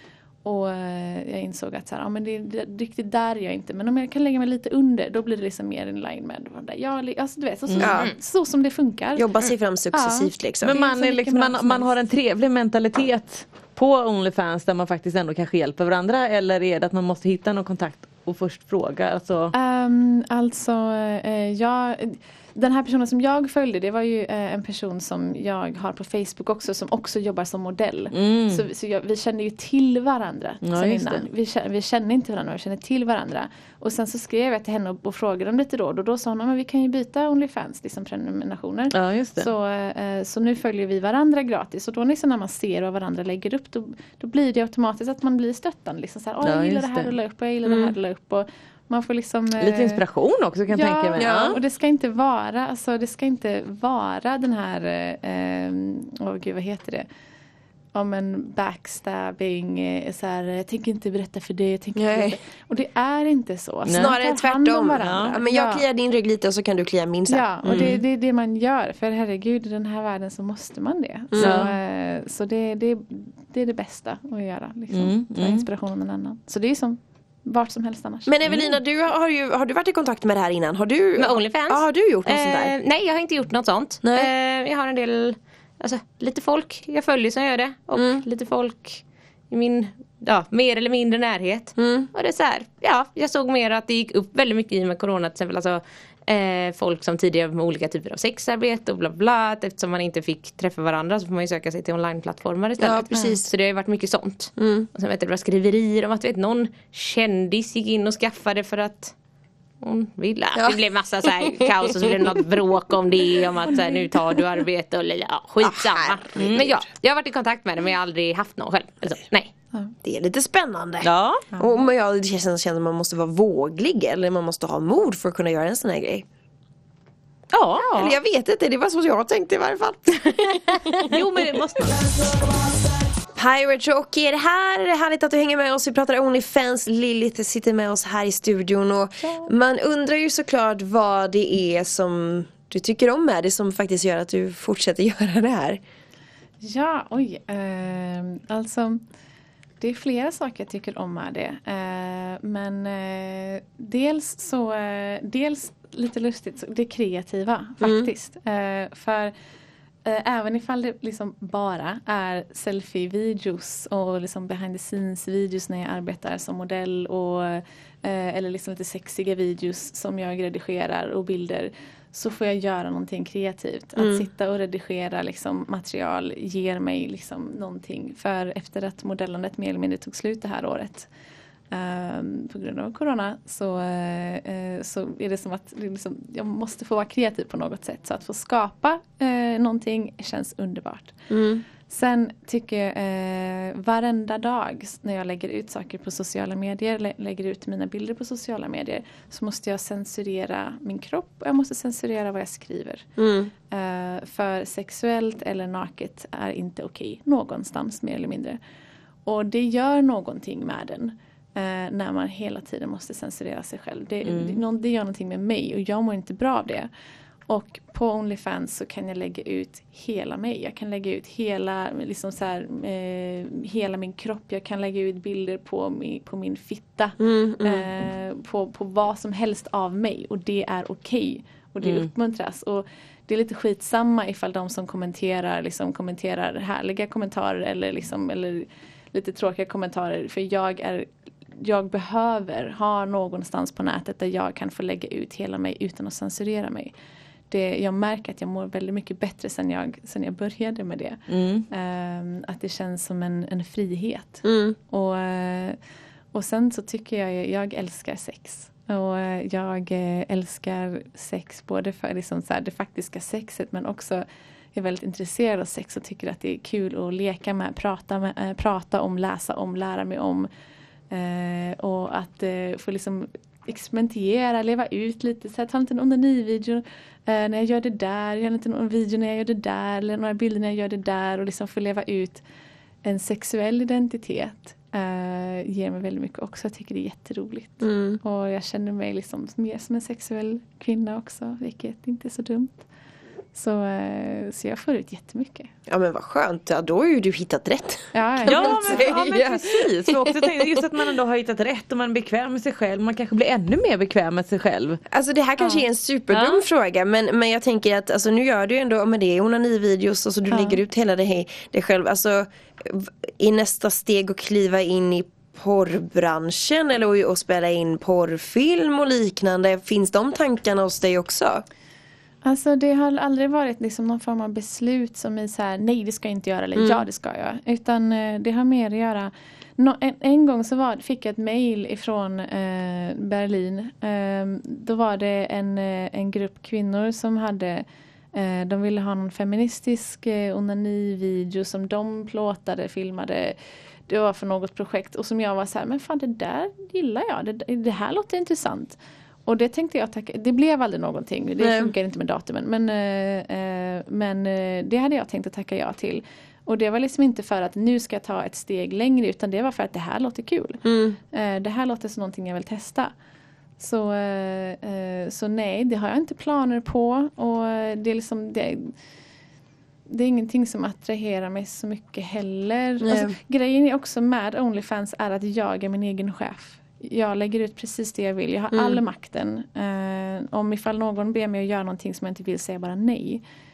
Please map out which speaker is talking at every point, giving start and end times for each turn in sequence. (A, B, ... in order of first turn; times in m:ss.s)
0:00.4-0:09.3 A
0:07.8-0:08.1 B
0:09.2-0:10.8 B
0:09.9-0:11.9 A
0:10.6-0:19.5 C
0:19.5-0:50.0 A
0:28.1-0:28.6 C
0:30.6-0:31.2 C
0:38.9-0:39.5 C
0:46.4-0:47.1 C
0:49.6-0:51.6 C
0:50.7-0:57.0 A
0:51.2-0:51.6 B
0:57.9-1:05.8 A
1:02.0-1:02.4 B
1:03.9-1:04.1 C
1:03.9-1:08.0 B
1:05.0-1:05.3 C
1:07.3-1:18.4 A
1:07.7-1:08.0 C
1:11.3-1:11.7 B
1:11.4-1:11.7 C
1:14.9-1:15.6 C
1:18.2-1:22.7 B
1:21.2-1:49.1 D
1:24.0-1:24.3 B
1:28.0-1:28.2 B
1:31.8-1:32.1 B
1:42.8-1:43.5 B
1:44.6-1:44.9 B
1:49.8-1:59.5 D
1:52.0-1:52.4 B
1:55.6-1:56.8 B
1:56.4-1:56.7 C
2:00.0-2:06.2 B
2:01.0-2:01.4 C
2:07.5-2:08.1 C
2:07.9-2:10.8 B
2:11.0-2:12.0 C
2:13.4-2:25.8 B
2:19.2-2:19.5 A
2:26.6-2:29.0 A
2:29.8-2:39.3 A
2:37.8-2:38.1 B
2:40.0-3:01.1 A
2:54.0-2:54.2 B
3:01.7-3:11.2 A
3:11.3-3:11.6 B
3:11.9-3:23.1 A
3:23.2-3:23.5 B
3:23.7-3:28.6 A
3:29.2-3:36.9 A
3:34.2-3:34.6 C
3:37.5-4:06.9 A
3:47.2-3:47.9 B
4:07.5-4:15.8 A
4:11.3-4:11.6 C
4:14.4-4:14.8 B
4:16.3-4:30.5 A
4:31.1-4:42.4 A
4:43.0-4:52.9 A
4:47.8-4:48.2 B
4:53.5-4:55.7 A
4:55.9-5:00.5 B
4:58.1-4:59.4 A
4:58.4-5:05.0 C
5:05.1-5:21.6 B
5:10.5-5:10.8 A
5:22.4-5:43.6 A
5:26.8-5:27.0 B
5:44.1-6:03.1 A
5:51.6-5:51.9 B
6:00.8-6:01.2 B
6:03.8-6:08.9 A
6:10.1-6:23.4 A
6:13.0-6:13.4 B
6:18.7-6:19.0 B